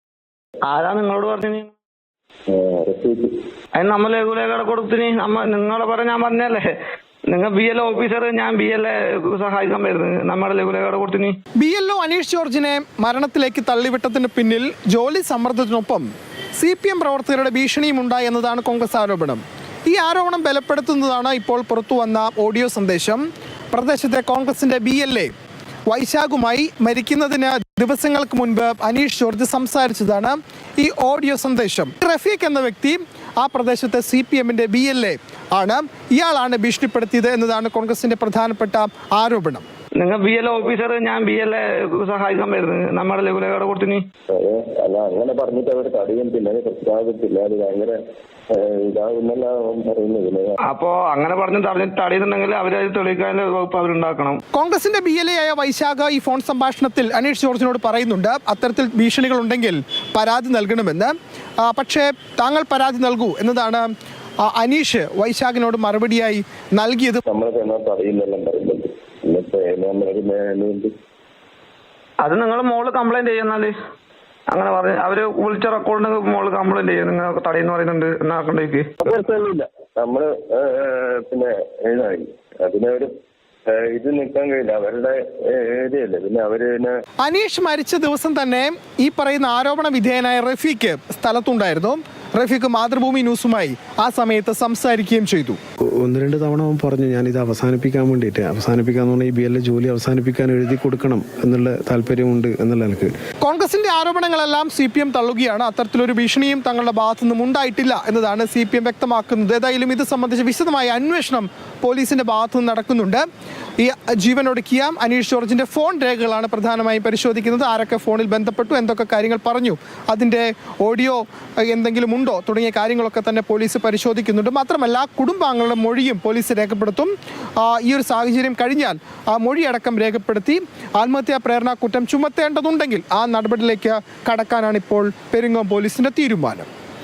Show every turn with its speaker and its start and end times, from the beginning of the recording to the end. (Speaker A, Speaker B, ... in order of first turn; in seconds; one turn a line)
Speaker A: 0.6-1.7
Speaker B: 2.5-3.3
Speaker A: 3.7-6.8
Speaker A: 7.3-11.4
Speaker C: 11.6-25.3
Speaker C: 25.9-39.6
Speaker A: 40.0-44.0
Speaker B: 44.3-48.0
Speaker B: 48.5-50.6
Speaker A: 50.6-54.4
Speaker C: 54.5-63.9
Speaker C: 64.4-67.2
Speaker B: 67.3-70.9
Speaker A: 72.2-73.7
Speaker A: 74.5-79.0
Speaker B: 79.0-83.1
Speaker B: 83.7-86.9
Speaker C: 87.2-95.6
Speaker D: 96.0-103.1
Speaker C: 103.4-113.2
Speaker C: 113.8-136.7